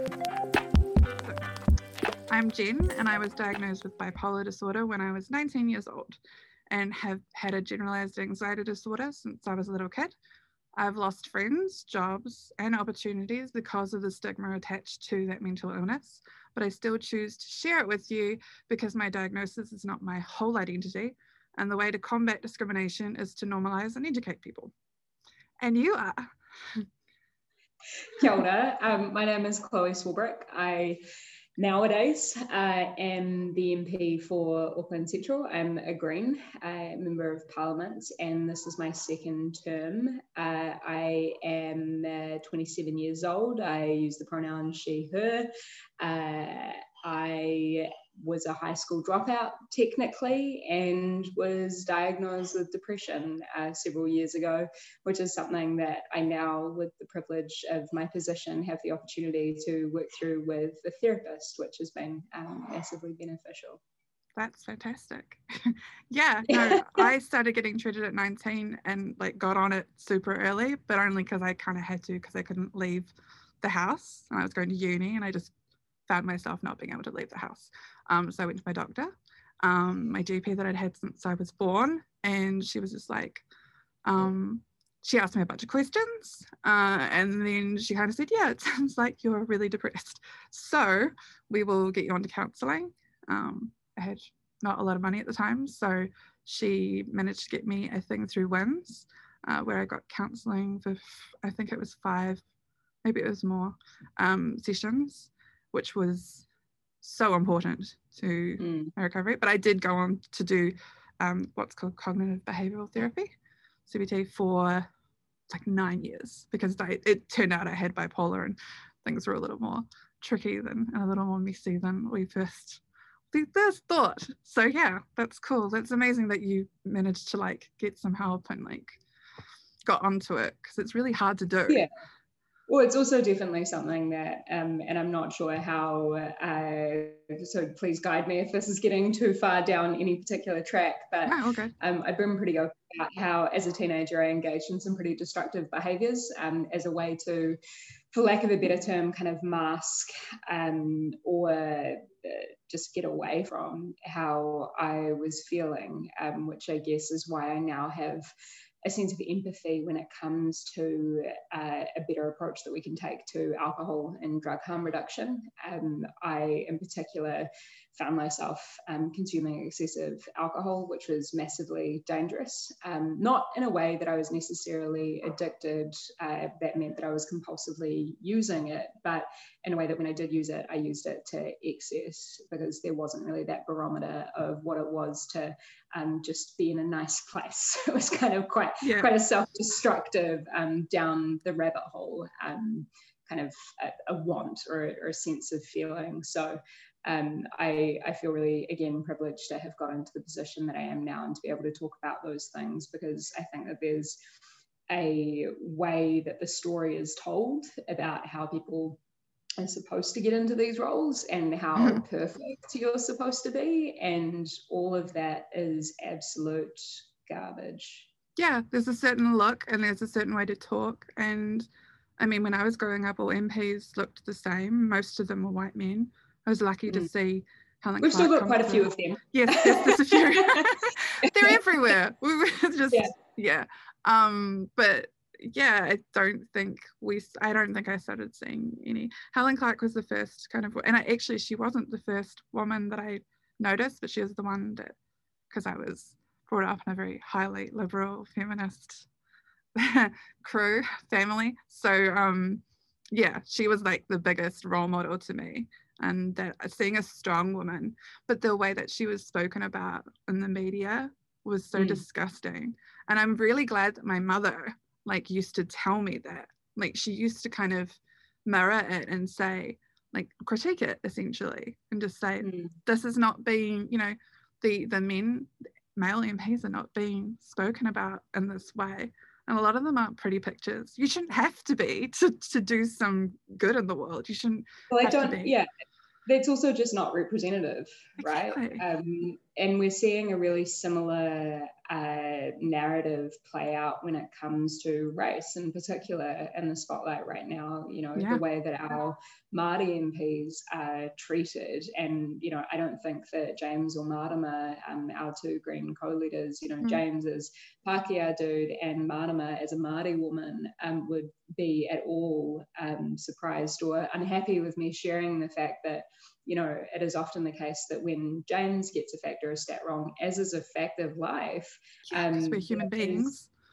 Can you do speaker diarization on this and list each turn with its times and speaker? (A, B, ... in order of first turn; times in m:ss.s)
0:02.3-0:06.2 A
0:06.7-0:10.1 A
0:10.8-0:24.7 A
0:25.6-0:26.9 A
0:28.2-0:31.0 B
0:31.6-0:45.5 B
0:46.0-1:03.8 B
1:04.4-1:15.5 A
1:06.5-1:07.1 B
1:16.1-1:23.4 A
1:24.0-1:42.4 A
1:43.0-1:46.4 A
1:47.0-1:53.3 A
1:48.6-1:48.9 B
1:53.9-1:54.9 A
1:55.5-2:09.0 A
2:09.8-2:11.9 A
2:12.7-2:27.6 B
2:21.3-2:21.7 A
2:28.1-2:38.3 B
2:38.8-3:24.2 B
3:08.8-3:09.1 A
3:24.9-3:29.0 B
3:29.6-3:38.1 B
3:38.4-3:41.7 A
3:42.2-4:05.0 A
3:48.0-3:50.7 B
3:51.3-3:51.6 B
4:05.5-4:09.1 A
4:09.8-4:45.5 A
4:21.7-4:22.0 B
4:32.4-4:32.7 B
4:44.9-4:45.7 B
4:46.2-5:23.3 B
4:48.2-4:48.8 A
4:58.2-4:58.4 A
5:22.1-5:23.5 A